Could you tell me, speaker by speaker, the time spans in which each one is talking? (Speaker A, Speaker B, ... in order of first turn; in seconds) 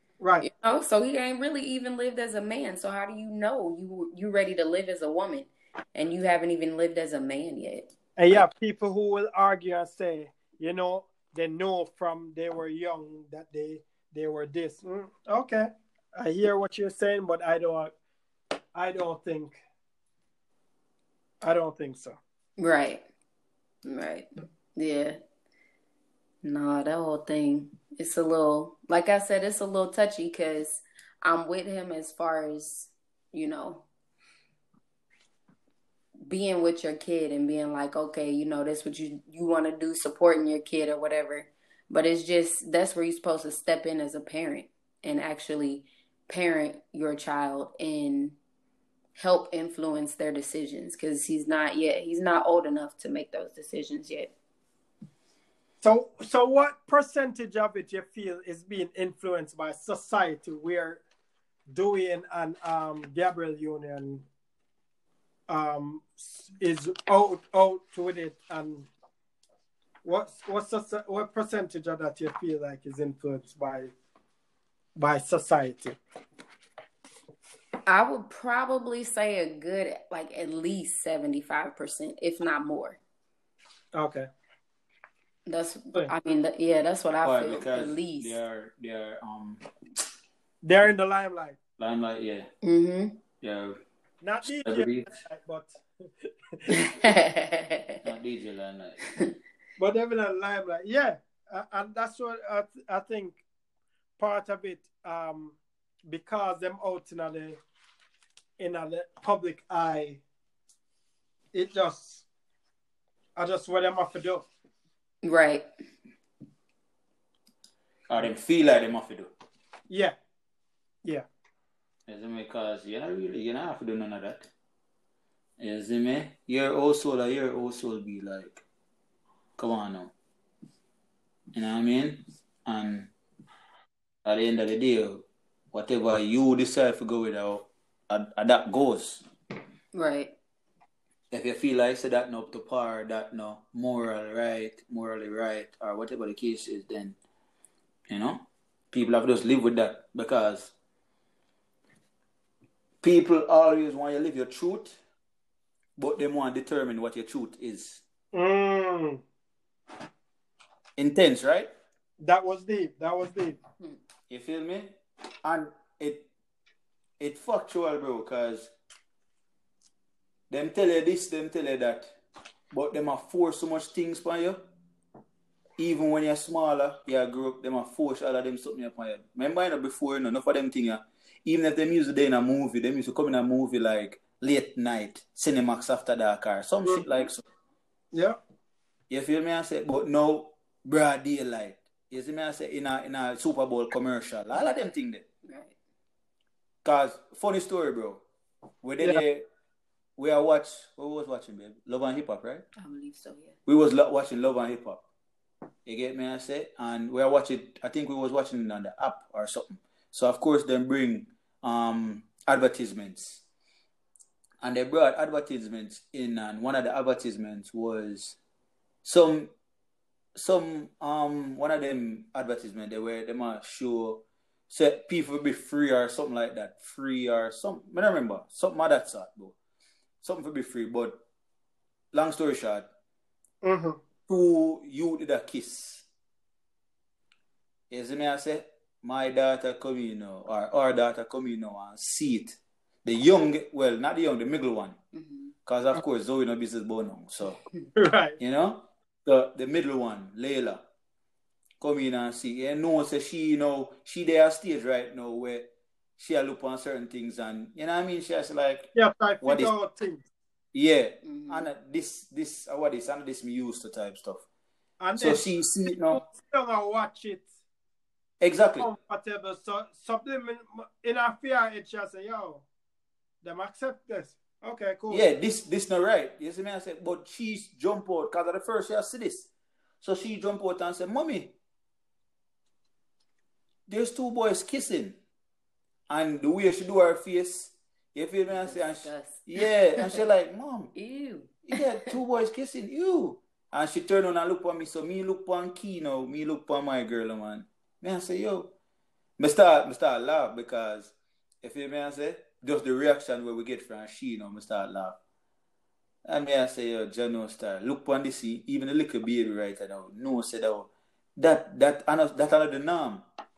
Speaker A: 0.2-0.5, 8.2-17.9, 18.8-19.6, 21.4-22.2, 55.8-61.0, 61.7-64.2, 65.5-68.9, 70.0-73.9, 75.0-76.0, 84.0-84.3, 90.6-91.6, 94.2-96.9, 99.8-103.4, 104.2-107.6, 108.6-110.2, 111.5-112.2, 113.4-114.5, 119.9-120.2, 158.3-159.2, 162.2-163.6, 188.1-188.4, 233.6-234.0, 248.0-248.4, 258.9-260.2, 265.0-267.5, 268.8-272.7, 273.4-275.2
Speaker B: 0.4-7.9, 22.6-23.1, 23.9-25.2, 26.4-33.9, 36.2-48.4, 49.2-54.3, 77.9-83.0, 85.5-88.4, 92.6-93.2, 96.7-98.0, 115.2-115.7, 139.9-140.3, 195.4-195.8, 202.8-203.6, 245.1-245.5, 261.2-261.7, 288.5-290.2, 290.9-291.8
Speaker C: 87.2-89.6, 91.8-92.5, 93.4-93.8, 94.5-95.1, 98.0-99.0, 118.1-119.3, 122.1-124.5, 125.6-128.6, 129.6-130.1, 131.5-133.1, 134.2-139.2, 141.3-147.2, 148.1-150.7, 153.0-155.0, 156.0-158.0, 161.0-161.7, 164.3-164.9, 165.4-166.3, 167.2-168.7, 170.5-172.2, 172.7-174.6, 175.8-187.4, 189.1-195.2, 196.8-198.2, 198.8-199.5, 200.2-202.6, 203.7-205.0, 205.9-213.4, 214.6-218.4, 219.0-219.5, 220.4-229.6, 230.2-231.2, 232.1-232.9, 234.3-236.1, 237.9-245.0, 245.7-247.6, 248.4-250.8, 251.8-259.7, 260.7-264.4, 265.2-266.2, 268.4-268.9, 275.1-279.5, 280.0-281.5, 283.9-285.2, 286.1-290.9, 291.6-298.7, 299.4-305.2, 306.3-313.2